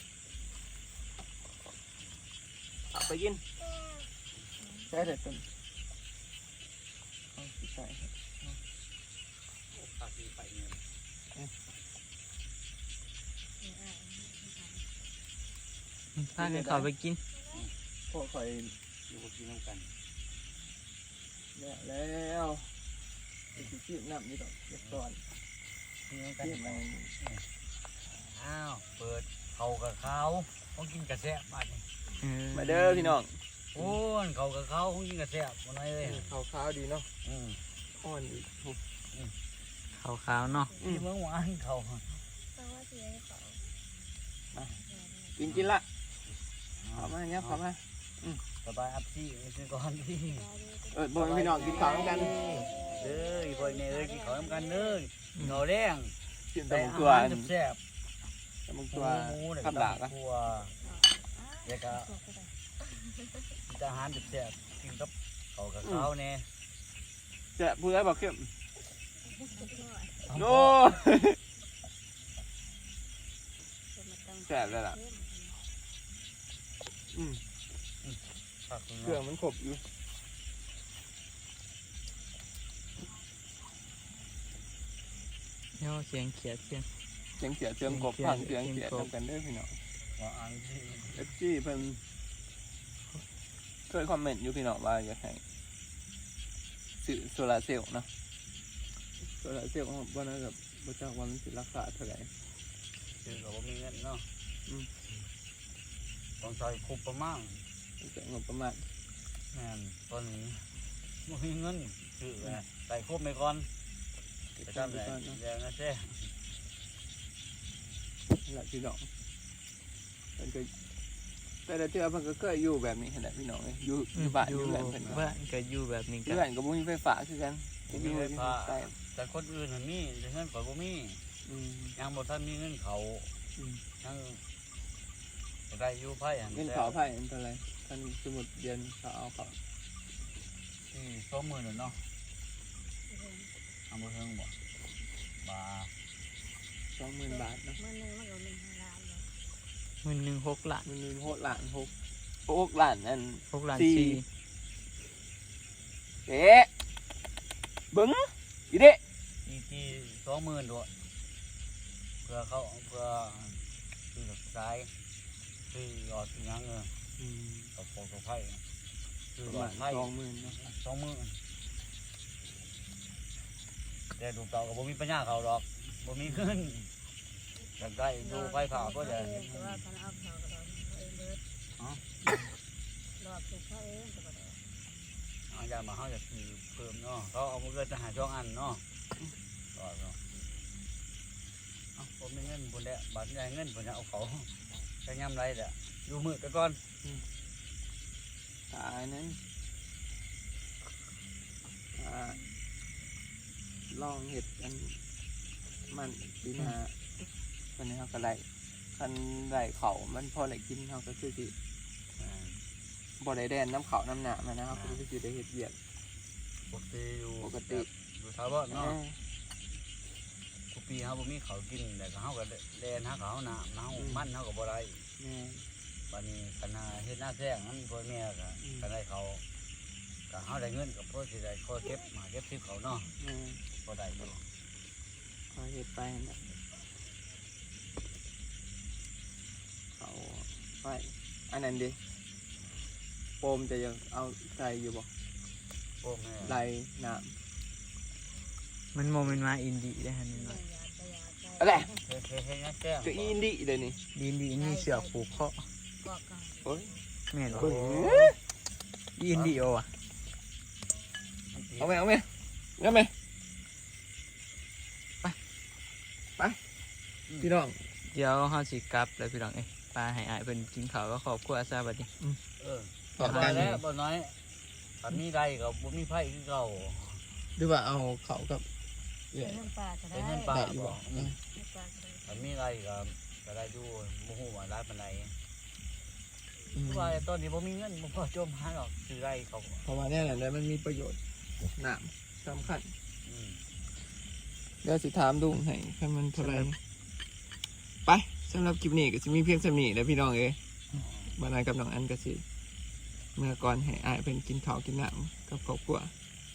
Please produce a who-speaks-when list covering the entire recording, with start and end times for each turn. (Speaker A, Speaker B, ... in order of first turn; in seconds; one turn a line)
Speaker A: 2.9-3.4
Speaker B: 3.7-4.0
Speaker A: 4.9-5.4
Speaker A: 7.3-8.6
Speaker C: 9.7-10.8
Speaker D: 13.6-14.9
Speaker E: 16.1-17.2
Speaker A: 16.4-16.9
Speaker B: 17.3-17.6
Speaker A: 18.1-18.7
Speaker C: 19.1-19.9
Speaker A: 21.5-22.7
Speaker A: 23.5-25.2
Speaker C: 26.1-27.4
Speaker A: 26.4-27.1
Speaker C: 28.3-31.9
Speaker E: 32.2-33.2
Speaker A: 32.5-34.0
Speaker C: 33.7-36.2
Speaker A: 36.0-37.1
Speaker C: 37.2-37.6
Speaker A: 38.0-38.8
Speaker E: 40.0-40.7
Speaker C: 40.8-42.2
Speaker A: 40.8-41.0
Speaker B: 42.5-43.6
Speaker A: 44.5-44.8
Speaker D: 44.9-45.4
Speaker A: 45.4-45.9
Speaker C: 45.5-45.7
Speaker C: 46.8-47.6
Speaker A: 46.9-48.4
Speaker C: 48.6-50.5
Speaker D: 50.4-50.9
Speaker A: 50.9-52.3
Speaker C: 51.1-52.3
Speaker D: 51.6-55.0
Speaker B: 52.1-53.2
Speaker C: 53.0-56.1
Speaker E: 55.4-55.6
Speaker A: 56.5-57.5
Speaker C: 56.7-57.8
Speaker A: 58.7-60.1
Speaker C: 58.9-60.7
Speaker D: 60.8-62.5
Speaker C: 61.6-62.1
Speaker C: 63.7-66.5
Speaker A: 65.8-66.1
Speaker A: 67.5-68.5
Speaker D: 69.3-70.2
Speaker C: 70.2-70.9
Speaker A: 70.3-71.4
Speaker D: 73.9-75.6
Speaker A: 74.5-75.0
Speaker A: 77.1-77.4
Speaker C: 78.0-79.2
Speaker A: 79.0-79.8
Speaker E: 85.8-86.9
Speaker A: 87.4-89.8
Speaker E: 87.8-89.1
Speaker C: 90.2-91.3
Speaker A: 91.1-92.0
Speaker A: 93.9-95.4
Speaker A: 97.0-98.1
Speaker A: 99.2-102.3
Speaker C: 103.1-104.3
Speaker C: 106.4-107.6
Speaker A: 108.0-108.8
Speaker C: 109.5-110.7
Speaker C: 111.2-113.7
Speaker A: 114.6-115.4
Speaker C: 114.6-116.3
Speaker A: 118.4-119.1
Speaker A: 120.4-120.7
Speaker A: 121.7-125.3
Speaker E: 124.2-126.4
Speaker A: 126.2-128.9
Speaker C: 127.9-131.2
Speaker A: 131.4-132.0
Speaker C: 131.9-133.3
Speaker A: 133.6-133.8
Speaker C: 134.0-134.4
Speaker C: 135.7-137.0
Speaker A: 136.5-139.6
Speaker C: 140.9-142.0
Speaker D: 143.1-143.5
Speaker C: 143.9-144.5
Speaker C: 145.4-145.9
Speaker A: 146.9-147.8
Speaker D: 147.2-149.3
Speaker E: 150.0-150.9
Speaker A: 150.8-151.9
Speaker A: 152.5-154.2
Speaker E: 153.5-154.2
Speaker A: 156.2-156.7
Speaker A: 157.9-159.0
Speaker C: 159.4-160.9
Speaker C: 162.2-164.9
Speaker C: 165.7-166.9
Speaker A: 167.2-167.7
Speaker C: 167.8-168.6
Speaker C: 169.3-171.4
Speaker A: 169.4-170.6
Speaker C: 174.2-176.9
Speaker C: 177.8-179.7
Speaker D: 178.2-181.4
Speaker D: 183.2-184.6
Speaker C: 185.5-188.8
Speaker C: 189.7-190.2
Speaker C: 191.9-194.5
Speaker C: 195.0-196.8
Speaker A: 198.7-199.4
Speaker A: 201.9-202.4
Speaker A: 203.9-205.0
Speaker A: 205.9-206.9
Speaker A: 207.8-211.5
Speaker C: 212.2-212.6
Speaker A: 213.2-215.8
Speaker C: 214.7-215.0
Speaker C: 216.7-219.0
Speaker A: 217.4-217.9
Speaker A: 218.7-219.2
Speaker C: 220.7-225.0
Speaker A: 223.9-224.3
Speaker A: 225.2-225.7
Speaker C: 226.1-229.4
Speaker C: 230.3-233.1
Speaker A: 233.2-233.6
Speaker C: 233.8-234.4
Speaker A: 235.5-236.5
Speaker A: 239.9-242.0
Speaker A: 243.4-245.1
Speaker C: 246.0-246.6
Speaker A: 246.4-247.3
Speaker E: 248.9-250.6
Speaker D: 250.3-252.0
Speaker A: 251.6-251.9
Speaker C: 252.1-253.4
Speaker A: 253.0-254.0
Speaker E: 254.1-255.7
Speaker D: 254.5-255.3
Speaker D: 256.0-257.0
Speaker A: 256.6-256.9
Speaker E: 257.3-257.7
Speaker C: 257.4-258.3
Speaker A: 257.5-258.4
Speaker E: 259.2-259.9
Speaker C: 259.3-259.7
Speaker C: 261.5-262.0
Speaker A: 261.8-263.1
Speaker A: 267.4-267.8
Speaker E: 268.1-272.1
Speaker C: 272.6-274.4
Speaker A: 273.2-273.8
Speaker E: 273.2-273.8
Speaker C: 275.0-277.2
Speaker A: 277.6-278.6
Speaker A: 279.3-279.6
Speaker D: 279.4-280.6
Speaker C: 280.1-281.4
Speaker A: 280.5-281.4
Speaker D: 281.5-282.5
Speaker C: 282.2-285.4
Speaker A: 286.7-287.2
Speaker C: 286.7-289.9
Speaker A: 289.8-291.2
Speaker A: 291.7-292.9
Speaker C: 293.2-293.6
Speaker A: 294.8-296.8
Speaker E: 296.4-296.7
Speaker A: 298.1-300.6
Speaker C: 300.9-301.4
Speaker A: 301.4-302.4
Speaker A: 303.4-306.1